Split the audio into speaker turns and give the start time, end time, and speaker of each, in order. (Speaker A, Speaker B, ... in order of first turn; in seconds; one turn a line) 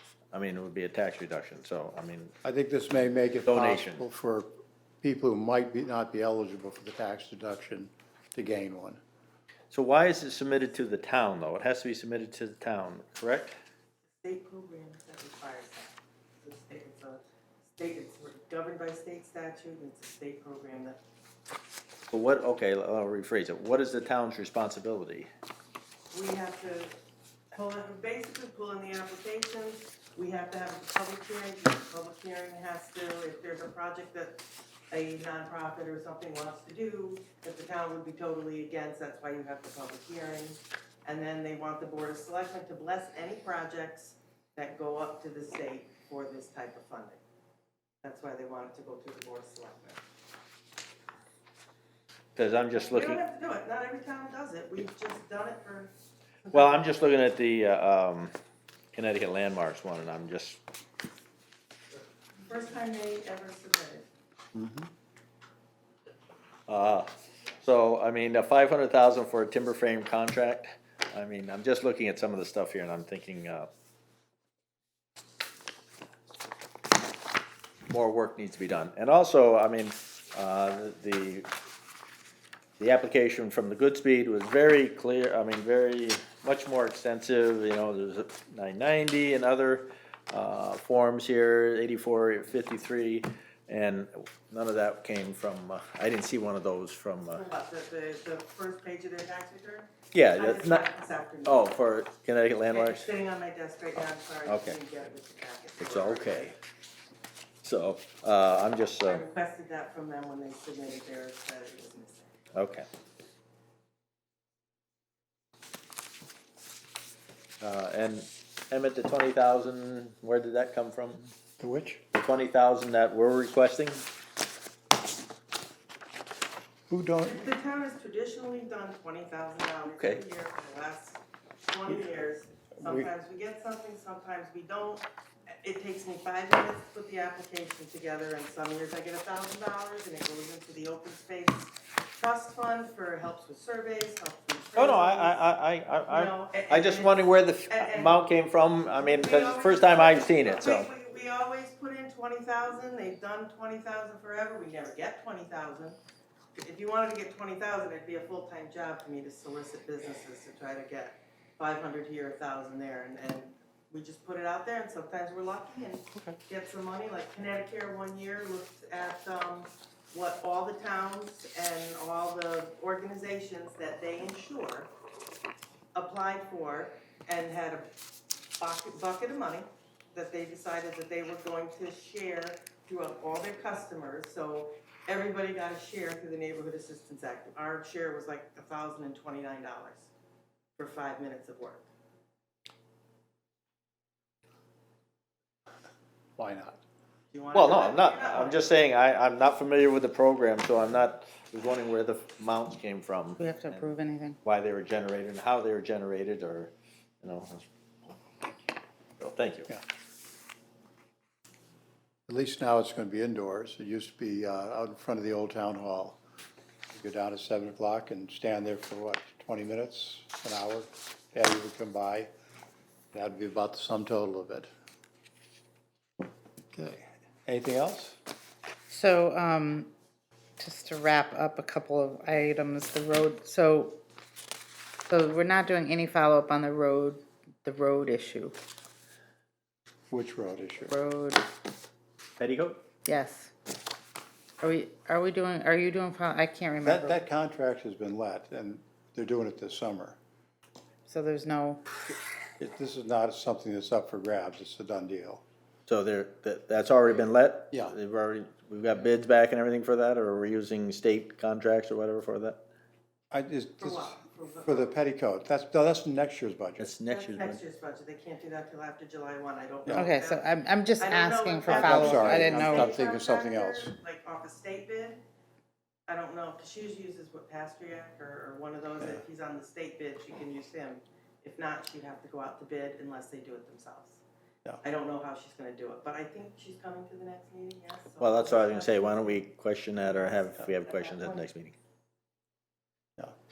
Speaker A: 0.3-2.3
Speaker B: 2.4-4.5
Speaker A: 3.5-4.0
Speaker B: 5.0-9.0
Speaker A: 9.7-13.6
Speaker C: 14.2-21.0
Speaker A: 22.1-25.3
Speaker C: 26.1-26.9
Speaker C: 27.5-47.2
Speaker C: 48.0-50.0
Speaker A: 52.4-53.2
Speaker C: 52.7-55.9
Speaker C: 56.5-56.8
Speaker A: 56.5-58.3
Speaker A: 58.9-60.6
Speaker C: 62.5-64.1
Speaker B: 64.5-64.9
Speaker A: 66.7-67.1
Speaker A: 67.6-73.7
Speaker A: 77.9-81.5
Speaker A: 82.8-97.4
Speaker C: 97.3-101.7
Speaker A: 100.1-100.9
Speaker A: 101.4-103.1
Speaker C: 102.7-106.5
Speaker A: 104.5-104.8
Speaker A: 105.8-106.6
Speaker A: 107.6-109.2
Speaker C: 109.0-112.3
Speaker A: 112.5-112.9
Speaker A: 117.6-121.3
Speaker B: 121.6-122.0
Speaker A: 122.1-124.0
Speaker B: 126.9-127.5
Speaker C: 127.2-135.1
Speaker A: 129.9-130.2
Speaker B: 132.8-133.1
Speaker C: 135.6-145.4
Speaker A: 144.8-150.9
Speaker C: 146.1-148.2
Speaker C: 148.9-156.0
Speaker C: 156.6-174.9
Speaker C: 175.9-177.9
Speaker C: 178.6-190.1
Speaker C: 190.8-191.9
Speaker B: 196.4-196.8
Speaker C: 197.3-198.6
Speaker A: 197.5-203.9
Speaker D: 203.4-204.4
Speaker A: 204.4-207.7
Speaker A: 209.2-209.8
Speaker B: 212.3-216.2
Speaker B: 216.9-222.3
Speaker B: 223.1-224.7
Speaker B: 226.7-228.2
Speaker D: 228.9-229.9
Speaker D: 230.6-234.0
Speaker D: 235.1-238.6
Speaker B: 240.1-240.9
Speaker D: 240.9-241.5
Speaker A: 242.4-242.8
Speaker D: 243.1-243.5
Speaker D: 244.6-247.2
Speaker B: 246.8-250.2
Speaker D: 251.1-251.8
Speaker B: 252.6-255.4
Speaker A: 255.9-262.6
Speaker B: 263.3-266.9
Speaker C: 263.8-264.9
Speaker A: 266.8-267.6
Speaker C: 267.1-270.5
Speaker D: 269.9-272.9
Speaker C: 271.0-275.2
Speaker B: 271.7-273.9
Speaker C: 276.1-284.2
Speaker C: 284.8-289.4
Speaker A: 288.2-291.8
Speaker C: 290.0-291.4